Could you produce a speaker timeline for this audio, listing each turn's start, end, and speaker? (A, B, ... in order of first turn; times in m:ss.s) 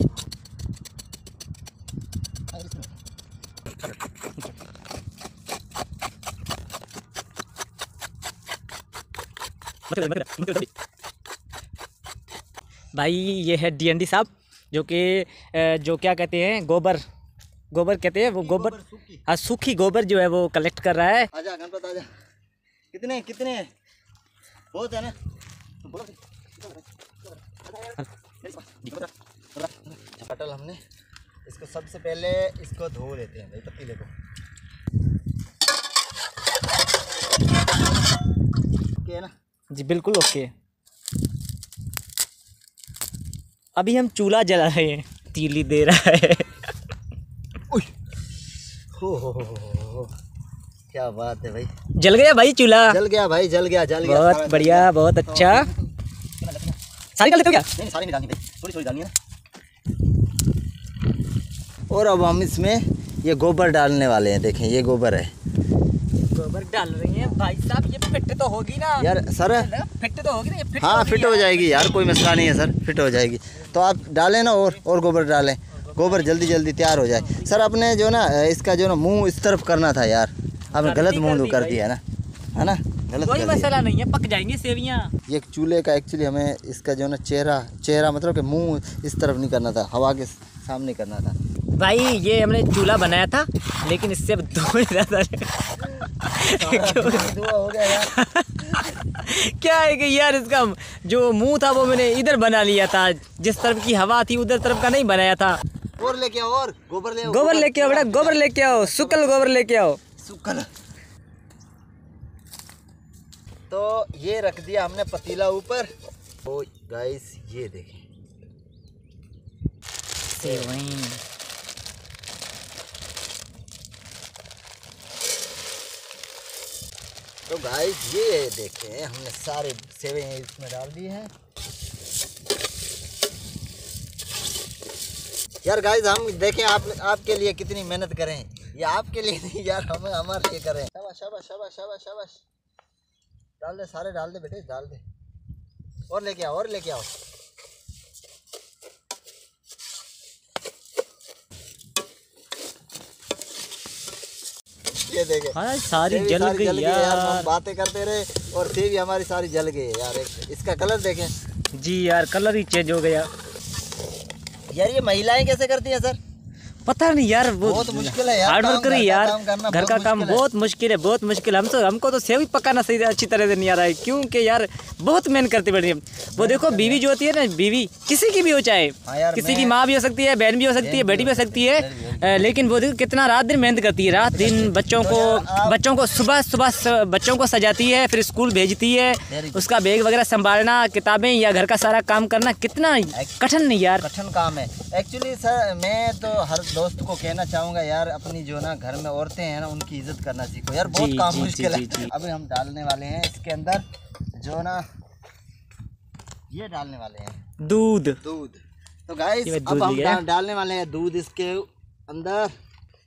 0:09.9-0:10.7 A
0:12.9-0:17.0 A
0:17.7-0:21.3 A
0:18.4-0:19.2 B
0:21.3-0:22.1 B
0:22.9-0:23.7 B
0:24.7-0:25.1 B
0:25.8-0:30.8 B
0:31.4-0:34.1 B
0:39.0-0:39.3 B
0:39.7-0:40.5 A
0:43.8-0:46.7 A
0:49.0-0:50.1 B
0:50.9-0:51.7 B
0:52.0-0:53.0 A
0:52.8-0:56.8 B
0:54.0-0:55.7 A
0:57.2-0:57.7 A
0:57.7-0:59.1 B
1:01.9-1:05.3 B
1:06.1-1:12.3 A
1:09.0-1:09.7 B
1:10.8-1:22.0 B
1:15.7-1:16.5 A
1:17.1-1:17.6 A
1:20.7-1:21.8 A
1:22.5-1:23.7 B
1:23.2-1:25.1 A
1:25.3-1:31.4 B
1:31.8-1:37.4 A
1:36.5-1:38.1 B
1:38.0-1:45.6 A
1:46.0-1:49.5 B
1:47.2-1:50.0 A
1:50.2-1:50.7 B
1:53.7-1:55.9 B
1:56.4-1:58.0 B
2:00.4-2:00.7 B
2:00.4-2:01.2 A
2:07.5-2:11.3 B
2:15.6-2:22.4 B
2:23.6-2:25.0 B
2:26.1-2:27.1 B
2:35.0-2:41.3 B
2:35.5-2:37.5 A
2:41.7-2:43.3 A
2:44.7-2:46.2 B
2:46.8-3:14.0 A
2:47.6-2:50.5 B
2:56.4-2:57.0 B
2:59.0-2:59.8 B
3:00.8-3:02.6 B
3:04.2-3:05.8 B
3:09.3-3:09.7 B
3:14.0-3:23.8 B
3:20.8-3:22.1 A
3:24.4-3:24.8 B
3:26.5-3:27.4 B
3:27.6-3:28.2 A
3:28.2-3:32.5 B
3:29.4-3:30.2 A